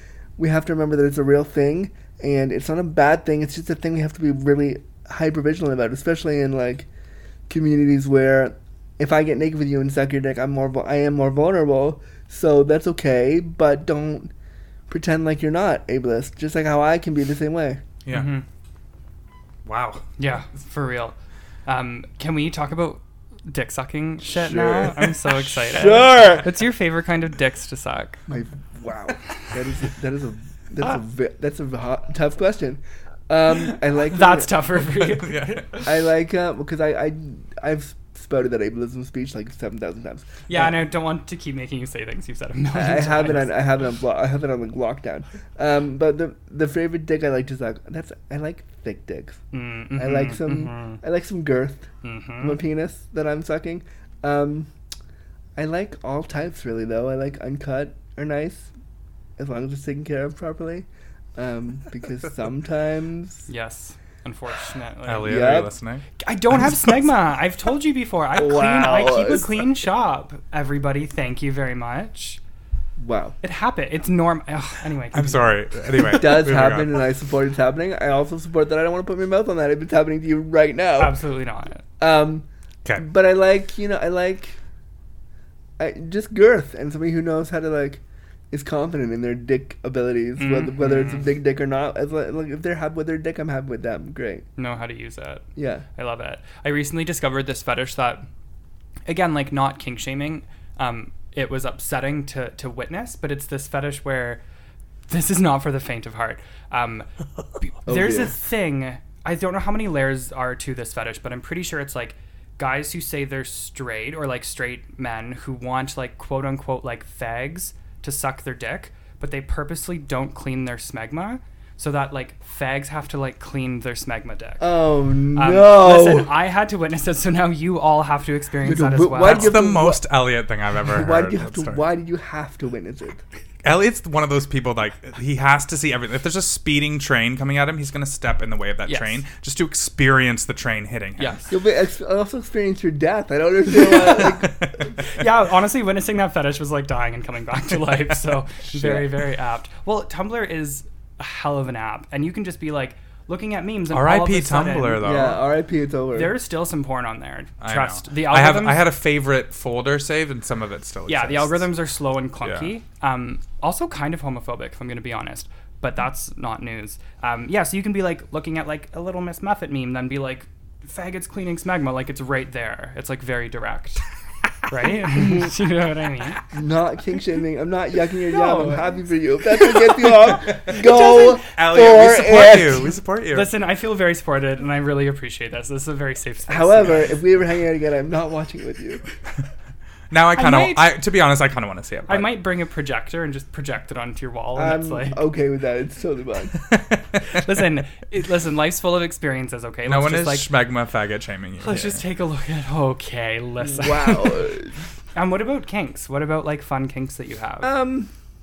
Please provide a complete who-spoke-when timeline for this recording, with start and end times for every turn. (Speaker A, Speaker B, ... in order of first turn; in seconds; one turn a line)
Speaker A: 0.4-6.9
Speaker A: 7.5-14.3
Speaker A: 14.9-17.8
Speaker B: 18.0-18.4
Speaker C: 18.1-18.4
Speaker B: 19.6-20.0
Speaker C: 20.2-28.2
Speaker A: 24.4-25.1
Speaker A: 25.6-26.4
Speaker A: 28.3-34.5
Speaker C: 34.1-35.9
Speaker B: 35.1-35.6
Speaker A: 35.8-40.7
Speaker C: 40.5-43.5
Speaker A: 42.7-49.4
Speaker C: 49.5-51.0
Speaker A: 50.0-51.9
Speaker C: 52.0-52.6
Speaker A: 52.4-54.7
Speaker A: 55.5-58.7
Speaker A: 59.4-63.5
Speaker C: 63.5-65.5
Speaker B: 65.0-66.0
Speaker A: 65.2-65.7
Speaker C: 66.2-72.4
Speaker A: 68.3-69.5
Speaker A: 73.0-73.3
Speaker C: 73.4-76.2
Speaker B: 75.1-77.0
Speaker A: 76.1-81.2
Speaker C: 81.0-81.8
Speaker A: 82.0-82.5
Speaker A: 83.0-84.6
Speaker A: 85.8-94.5
Speaker C: 90.4-91.3
Speaker C: 94.5-98.2
Speaker A: 95.5-95.8
Speaker C: 99.0-104.4
Speaker C: 105.1-107.1
Speaker C: 107.6-124.7
Speaker A: 107.8-108.3
Speaker A: 124.6-126.3
Speaker C: 125.3-129.6
Speaker A: 128.6-130.0
Speaker B: 129.2-131.8
Speaker A: 130.9-133.2
Speaker B: 133.6-141.4
Speaker C: 138.8-139.2
Speaker C: 141.2-141.5
Speaker A: 141.5-144.7
Speaker B: 143.9-144.9
Speaker C: 145.0-155.1
Speaker A: 148.7-149.1
Speaker B: 153.9-155.4
Speaker A: 155.0-156.3
Speaker C: 156.1-158.8
Speaker B: 157.6-161.7
Speaker C: 161.1-174.0
Speaker B: 162.4-162.7
Speaker C: 174.7-176.4
Speaker A: 176.5-182.9
Speaker C: 178.3-178.8
Speaker C: 180.6-181.4
Speaker B: 181.3-183.5
Speaker C: 183.3-187.1
Speaker A: 186.5-189.0
Speaker B: 190.1-192.3
Speaker C: 190.3-190.9
Speaker C: 192.1-195.2
Speaker A: 194.5-196.6
Speaker B: 196.7-197.2
Speaker C: 197.2-200.5
Speaker B: 199.8-202.0
Speaker C: 201.6-204.5
Speaker A: 203.7-204.8
Speaker C: 205.1-207.7
Speaker A: 207.6-208.1